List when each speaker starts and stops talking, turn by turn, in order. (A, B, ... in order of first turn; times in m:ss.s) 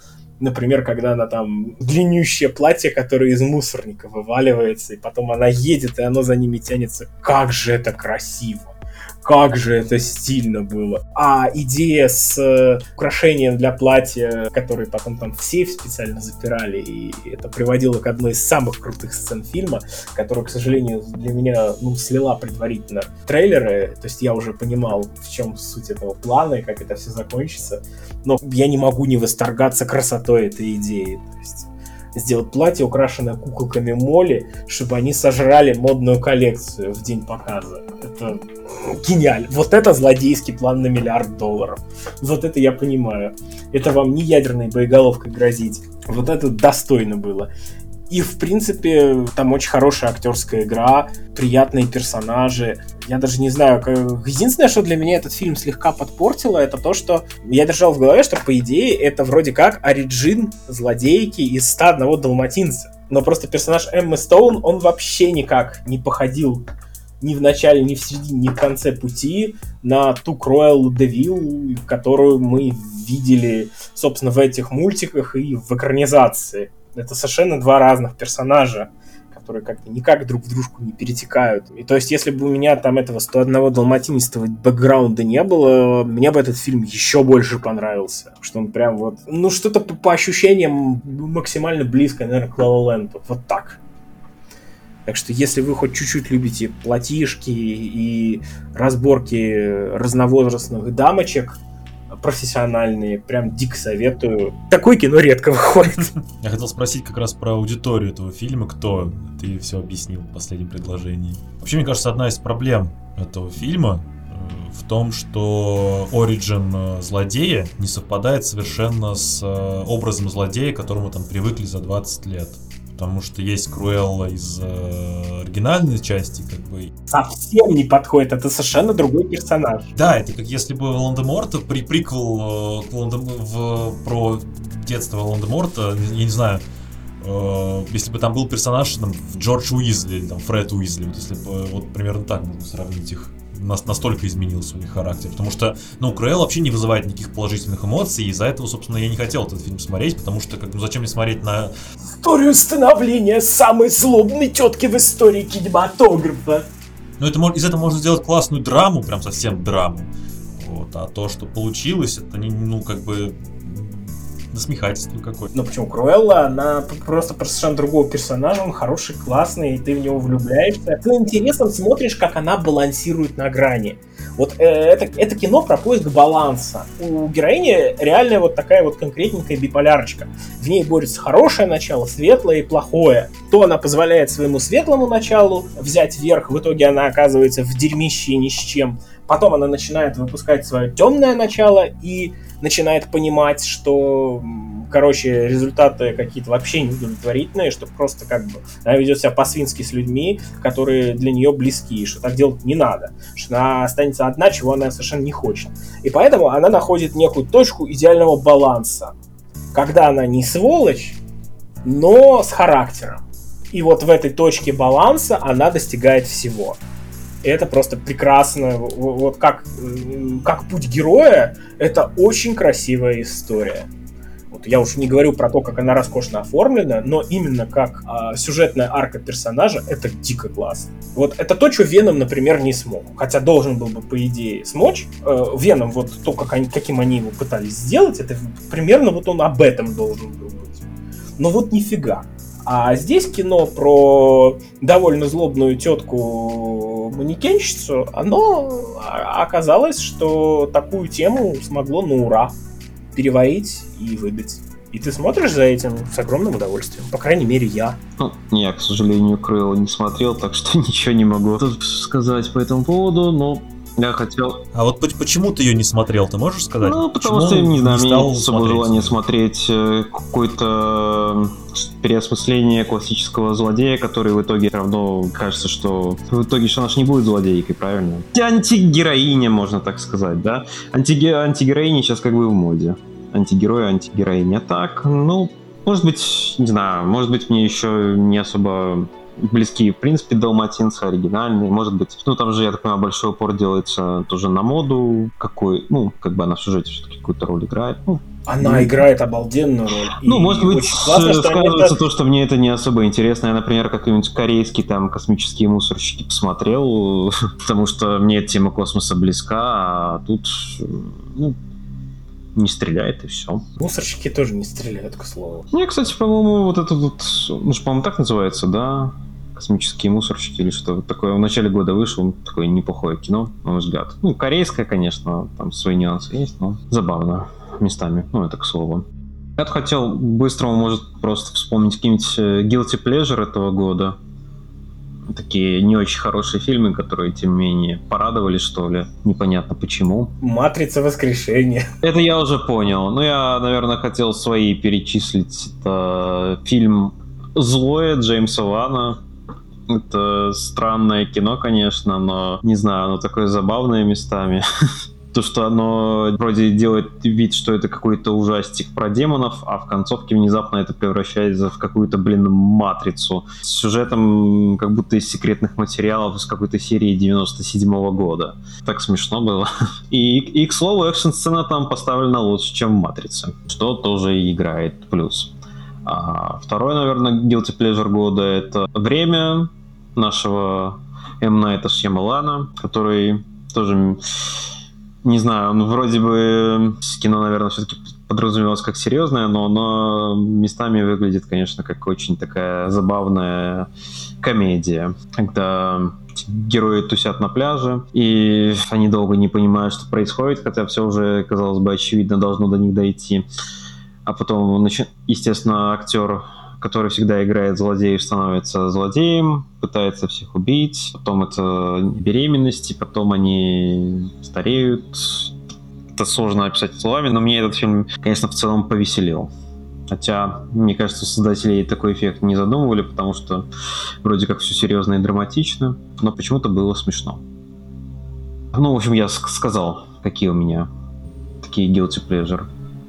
0:00.4-0:47.5 A
0:48.1-1:06.6 A
1:07.2-1:33.8 A
1:35.1-1:41.6 A
1:42.1-1:46.1 A
1:46.4-2:06.9 B
2:07.1-2:09.9 A
2:10.0-2:16.6 B
2:17.2-2:31.7 B
2:32.0-2:36.7 A
2:37.2-2:45.5 B
2:45.5-3:29.2 A
3:29.7-3:31.2 A
3:31.8-3:36.8 A
3:37.4-3:43.9 A
3:44.5-4:00.9 A
4:01.4-4:12.6 A
4:13.1-4:18.0 A
4:18.2-4:24.6 C
4:24.7-4:29.2 B
4:26.8-4:59.0 C
4:58.5-5:02.0 A
5:00.2-5:11.6 C
5:12.6-5:13.7 C
5:13.8-5:15.7 A
5:15.7-5:34.2 C
5:35.3-5:40.3 C
5:40.4-5:41.9 A
5:42.0-5:49.2 C
5:49.9-5:54.6 C
5:55.3-6:24.2 C
6:25.2-6:33.9 C
6:34.4-6:43.5 C
6:44.2-6:55.6 C
6:56.2-6:59.5 C
7:00.1-7:03.7 C
7:04.2-7:07.4 C
7:08.7-7:10.9 C
7:11.6-7:12.7 C